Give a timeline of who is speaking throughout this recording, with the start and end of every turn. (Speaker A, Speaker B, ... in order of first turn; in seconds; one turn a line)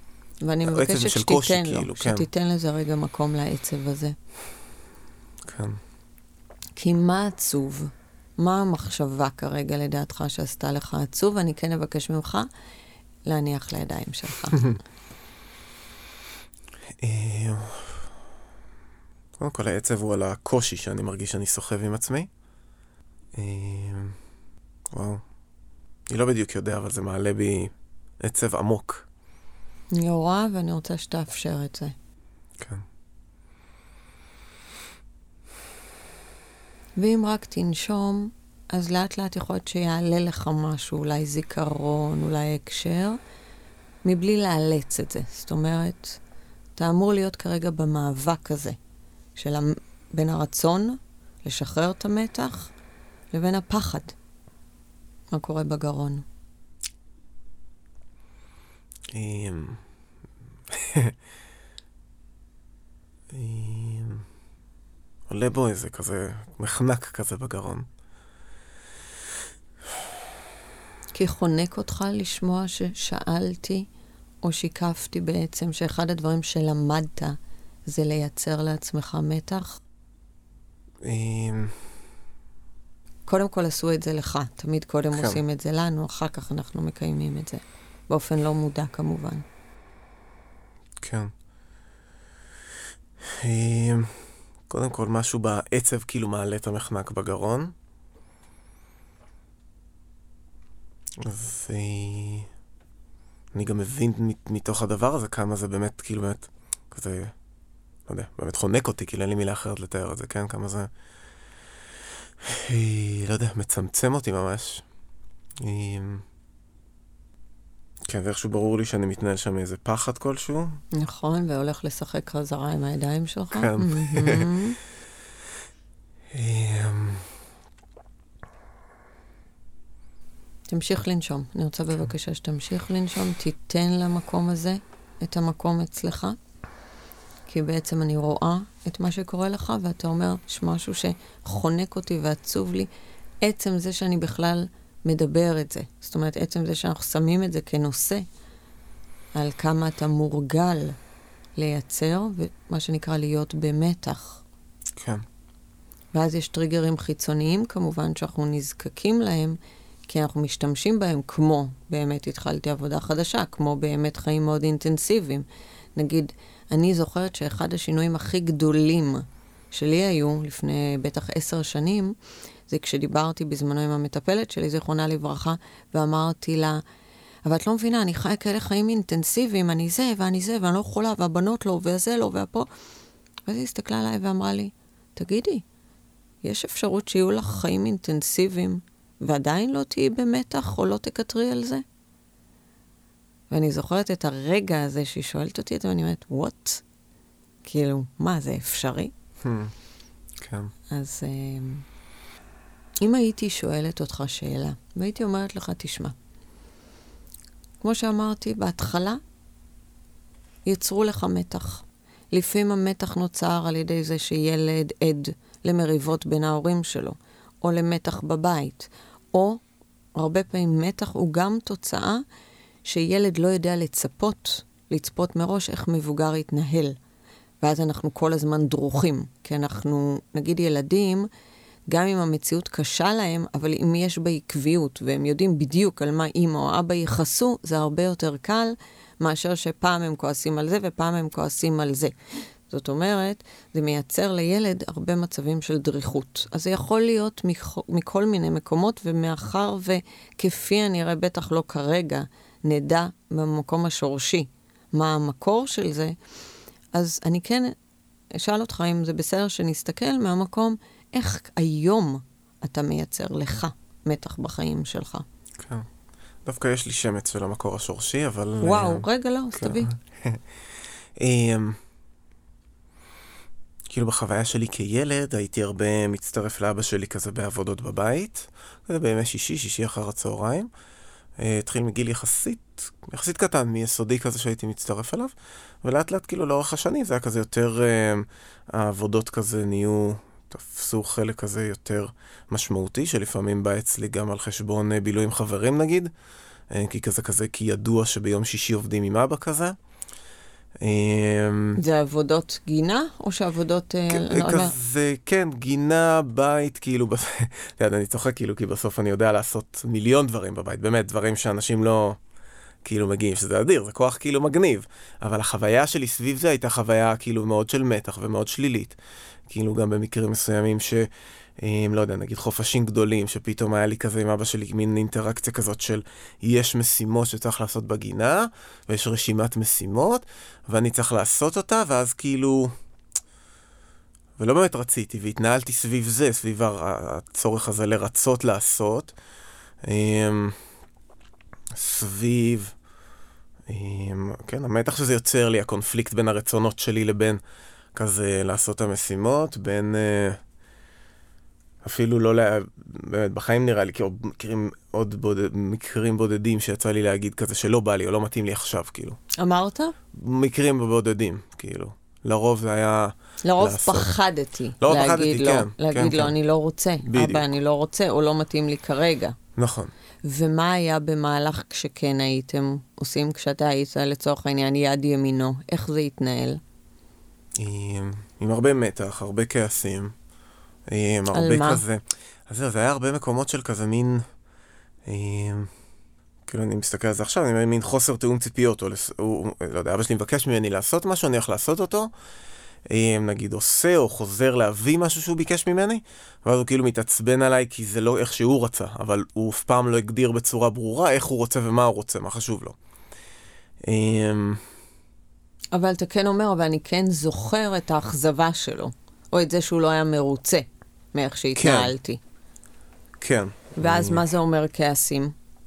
Speaker A: 0.4-4.2
Speaker B: 0.7-2.3
Speaker B: 5.5-5.8
Speaker A: 6.8-12.5
Speaker A: 13.2-14.7
Speaker B: 17.0-18.1
Speaker B: 19.4-22.3
Speaker B: 23.4-24.2
Speaker B: 24.9-25.2
Speaker B: 26.1-29.1
Speaker A: 29.9-31.9
Speaker B: 32.6-32.9
Speaker A: 37.0-43.2
Speaker A: 44.0-46.2
Speaker A: 46.8-48.8
Speaker A: 49.4-52.7
Speaker A: 53.3-54.1
Speaker A: 55.3-56.2
Speaker B: 59.1-59.8
Speaker B: 60.7-61.2
Speaker B: 63.3-64.3
Speaker B: 65.3-67.9
Speaker A: 71.1-73.9
Speaker A: 74.4-79.8
Speaker B: 81.0-81.9
Speaker A: 83.3-89.5
Speaker B: 85.1-85.4
Speaker B: 91.0-91.3
Speaker B: 93.2-97.7
Speaker B: 101.2-102.5
Speaker B: 103.5-107.3
Speaker B: 108.1-110.9
Speaker B: 112.4-114.8
Speaker B: 115.6-116.2
Speaker B: 118.1-120.8
Speaker A: 120.9-124.8
Speaker B: 123.5-124.5
Speaker B: 126.3-127.3
Speaker A: 130.7-136.4
Speaker A: 137.5-142.9
Speaker A: 143.4-148.3
Speaker A: 149.3-151.0
Speaker A: 151.6-154.4
Speaker B: 155.0-155.2
Speaker A: 156.1-165.4
Speaker A: 166.0-172.2
Speaker A: 172.7-176.8
Speaker A: 177.4-182.7
Speaker A: 183.5-185.7
Speaker A: 186.4-191.8
Speaker A: 193.5-196.8
Speaker A: 197.6-199.1
Speaker B: 199.4-199.7
Speaker B: 200.4-200.7
Speaker A: 200.9-201.8
Speaker A: 203.0-206.2
Speaker A: 207.8-209.2
Speaker A: 210.7-219.6
Speaker A: 220.2-222.2
Speaker A: 222.8-227.0
Speaker A: 227.6-231.3
Speaker A: 231.9-256.2
Speaker A: 256.9-257.8
Speaker A: 258.3-265.2
Speaker B: 265.6-265.9
Speaker B: 266.4-270.4
Speaker A: 268.6-269.9
Speaker B: 271.2-271.8
Speaker B: 273.9-280.7
Speaker B: 281.4-296.1
Speaker B: 296.7-299.8
Speaker B: 300.8-301.8
Speaker A: 301.8-304.7
Speaker B: 304.1-312.2
Speaker B: 312.8-319.0
Speaker B: 319.5-332.7
Speaker B: 334.4-339.1
Speaker B: 339.8-340.6
Speaker B: 341.8-342.7
Speaker B: 343.7-347.4
Speaker B: 347.9-350.4
Speaker B: 351.8-359.2
Speaker A: 359.4-359.9
Speaker B: 360.1-364.1
Speaker A: 363.4-369.4
Speaker B: 364.8-366.4
Speaker B: 367.1-367.5
Speaker B: 369.6-369.9
Speaker A: 370.2-376.6
Speaker B: 377.6-380.1
Speaker B: 380.9-384.2
Speaker A: 381.3-381.8
Speaker B: 385.1-385.7
Speaker B: 386.5-392.1
Speaker B: 392.9-402.8
Speaker B: 403.8-404.7
Speaker A: 405.7-412.2
Speaker B: 411.6-411.9
Speaker B: 413.2-414.2
Speaker A: 413.8-415.4